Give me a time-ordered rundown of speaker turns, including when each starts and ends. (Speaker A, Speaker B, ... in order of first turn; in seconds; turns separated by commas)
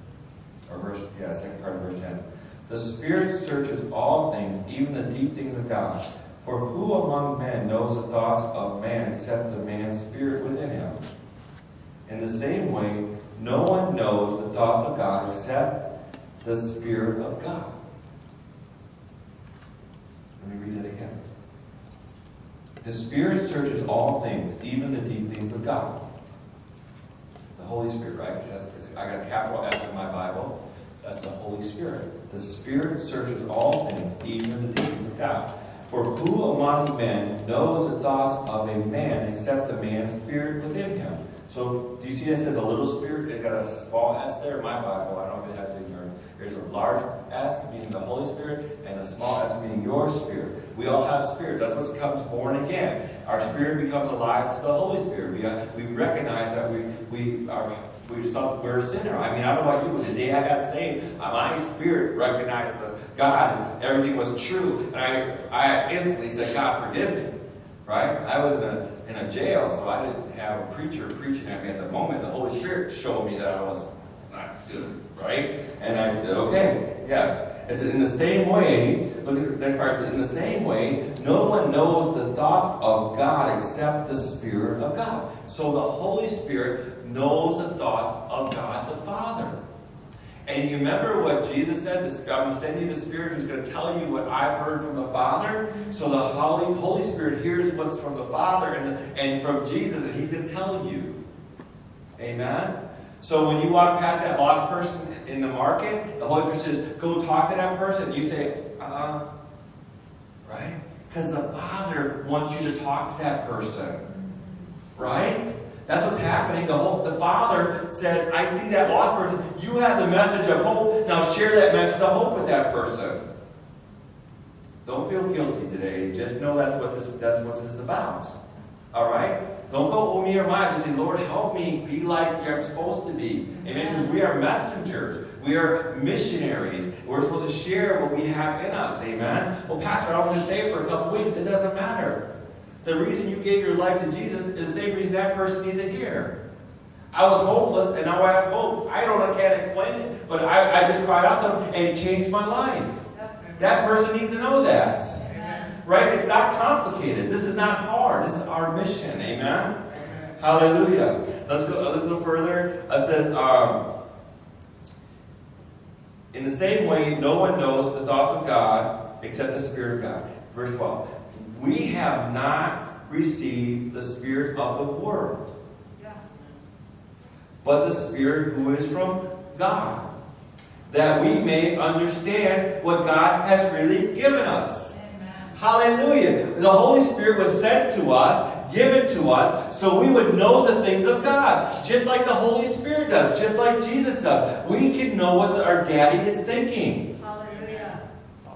Speaker A: 0.7-11.1, Speaker A: 12.1-15.8, Speaker A: 16.4-17.8, Speaker A: 20.4-21.2, Speaker A: 22.8-26.0, Speaker A: 27.5-89.6, Speaker A: 90.5-101.2, Speaker A: 102.2-109.2, Speaker A: 110.5-114.1, Speaker B: 114.1-114.5, Speaker A: 115.0-123.2, Speaker A: 124.8-128.3, Speaker A: 128.9-142.2, Speaker B: 133.6-134.2, Speaker A: 142.8-146.3, Speaker A: 147.1-153.0, Speaker B: 153.1-153.6, Speaker A: 153.6-155.2, Speaker B: 155.2-155.8, Speaker A: 155.8-159.8, Speaker A: 160.4-163.8, Speaker A: 166.3-175.5, Speaker A: 177.6-180.1, Speaker A: 180.9-185.0, Speaker B: 184.9-185.6, Speaker A: 185.6-197.1, Speaker B: 197.2-198.0